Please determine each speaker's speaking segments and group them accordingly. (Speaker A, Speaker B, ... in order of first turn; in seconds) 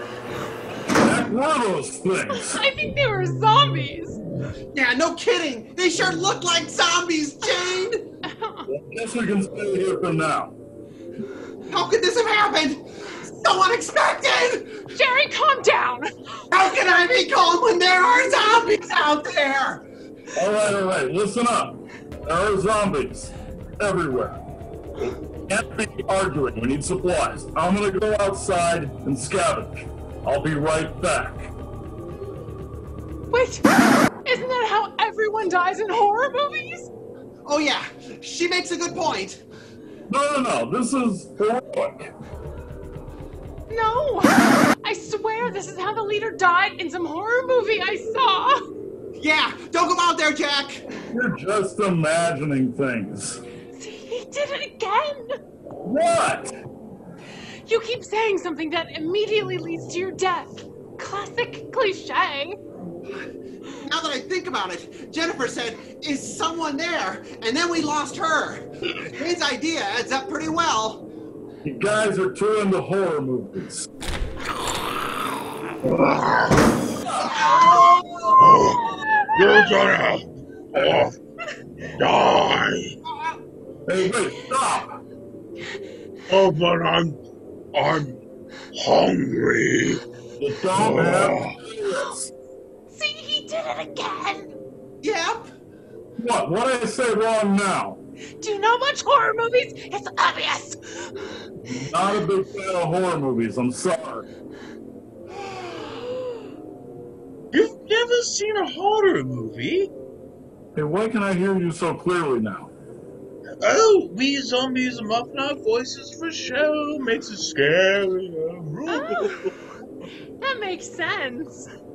Speaker A: 0.9-2.6, 8.7-10.6, 20.4-24.4, 25.4-31.5, 40.1-42.1, 51.1-53.4, 55.8-56.5, 71.6-73.9, 77.0-77.4, 83.9-85.0, 90.4-92.3, 96.2-98.0, 101.7-104.3, 110.8-112.7
Speaker B: 2.3-4.2, 8.2-8.7, 14.9-16.6, 33.3-33.6, 34.2-36.9, 43.7-48.6, 53.8-55.3, 57.7-62.6, 79.0-79.6, 92.9-94.5, 98.4-101.5, 118.9-119.5, 120.4-121.7
Speaker C: 4.7-8.0, 11.7-14.8, 16.5-19.8, 37.5-39.4, 49.2-50.8, 63.1-63.3, 63.8-71.0, 77.3-78.3, 95.0-95.5
Speaker D: 75.8-76.7, 78.4-81.2, 82.0-83.0, 86.3-87.2, 87.7-88.2, 88.7-90.0, 90.8-91.5, 107.5-109.9, 113.6-119.5